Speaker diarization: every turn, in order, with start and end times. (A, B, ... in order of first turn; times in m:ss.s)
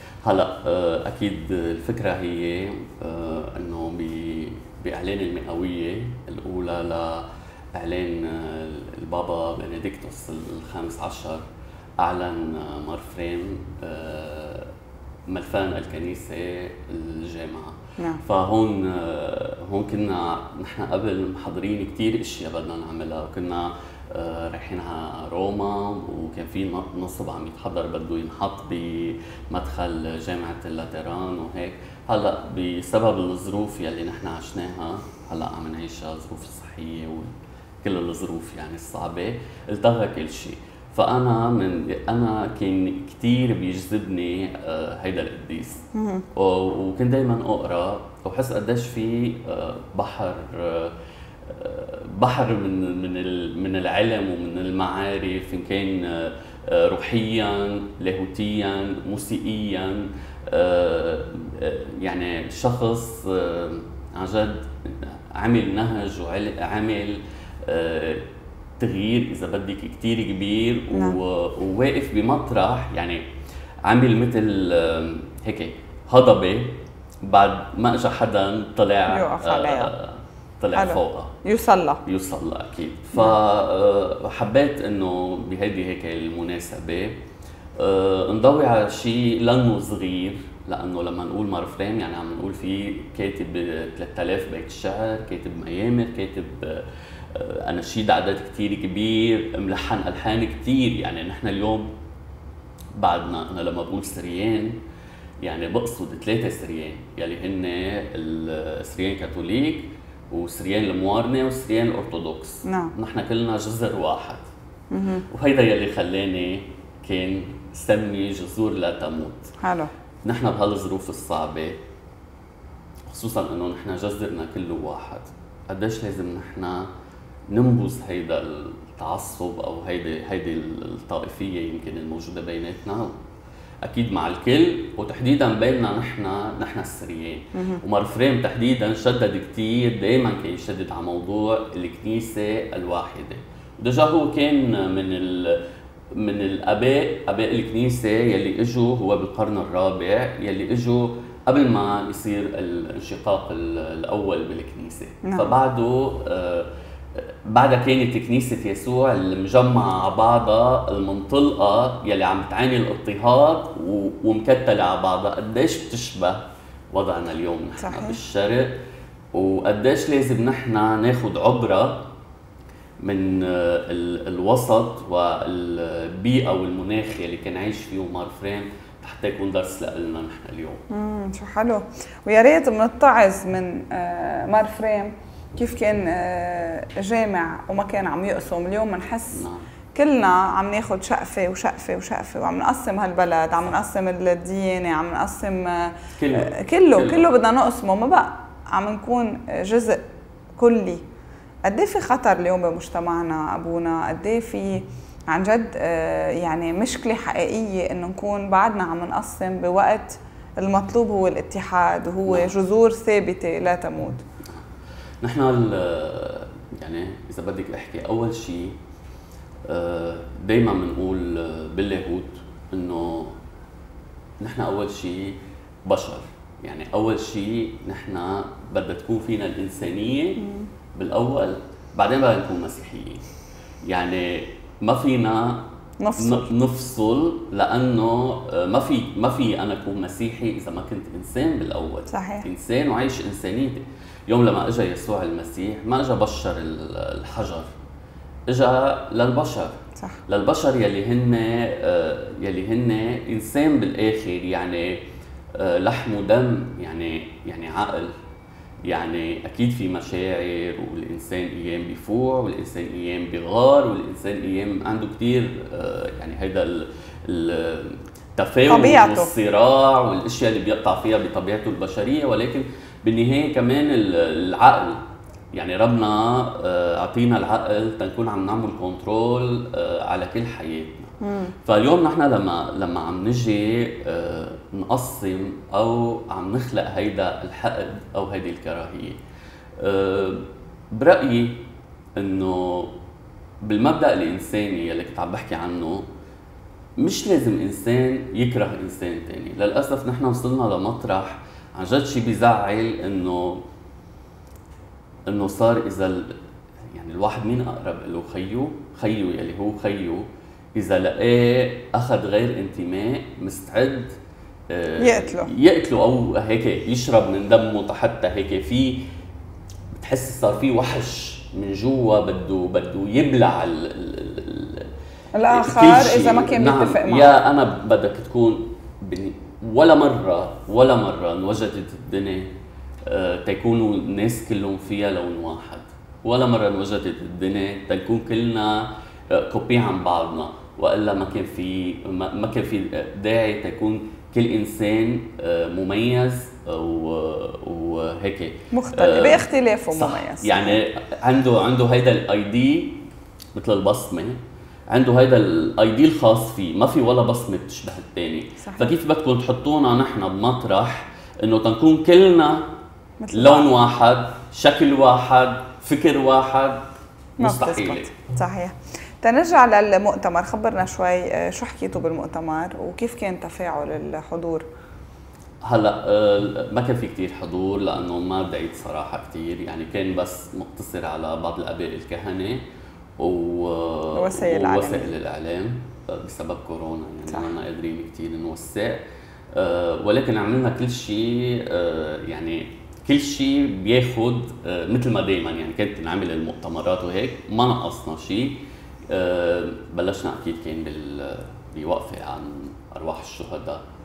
0:00.2-0:11.4 A
0:12.0-0:14.7 A
0:15.3-0:37.3 A
0:37.8-0:51.0 A
0:46.0-0:46.2 B
0:51.5-1:08.3 A
1:08.8-1:13.2 A
1:10.9-1:11.2 B
1:13.8-1:21.4 A
1:19.1-1:19.9 B
1:20.7-1:22.0 B
1:22.0-1:27.2 A
1:27.8-1:41.9 A
1:43.0-1:44.8 A
1:45.4-1:54.5 A
1:52.6-1:52.9 B
1:54.9-1:55.2 B
1:55.3-1:59.5 A
1:59.6-1:59.9 B
2:00.2-2:01.8 A
2:03.1-2:06.9 A
2:07.5-2:13.1 A
2:13.8-2:48.8 A
2:17.6-2:17.8 B
2:35.2-2:35.5 B
2:47.8-2:48.2 B
2:49.3-2:52.1 A
2:53.0-3:00.8 A
3:00.9-3:20.0 B
3:09.3-3:09.6 A
3:16.2-3:17.3 A
3:20.6-3:21.0 B
3:21.7-3:34.2 B
3:32.3-3:32.5 A
3:35.2-3:38.8 A
3:39.7-3:43.4 A
3:44.4-3:53.3 A
3:50.4-3:50.7 B
3:53.8-4:07.7 A
3:56.0-3:56.5 B
4:02.1-4:02.4 B
4:08.5-4:09.7 A
4:10.3-4:15.0 A
4:15.6-4:18.2 A
4:18.8-4:35.0 A
4:28.7-4:29.3 B
4:35.5-4:49.2 A
4:41.2-4:41.5 B
4:49.8-4:53.0 A
4:53.6-4:56.1 A
4:57.0-5:03.7 A
5:05.3-5:06.4 A
5:06.9-5:10.2 A
5:10.8-5:14.2 A
5:14.7-5:19.0 A
5:15.0-5:15.5 B
5:19.9-5:24.9 A
5:25.4-5:27.3 B
5:25.5-5:32.5 A
5:33.0-5:54.4 A
5:48.7-5:50.8 B
5:54.9-6:02.7 A
5:58.6-5:58.9 B
6:03.2-6:03.7 B
6:03.3-6:06.8 A
6:07.4-6:08.1 A
6:07.4-6:14.6 B
6:15.6-6:22.6 A
6:23.2-6:43.8 A
6:24.1-6:25.1 B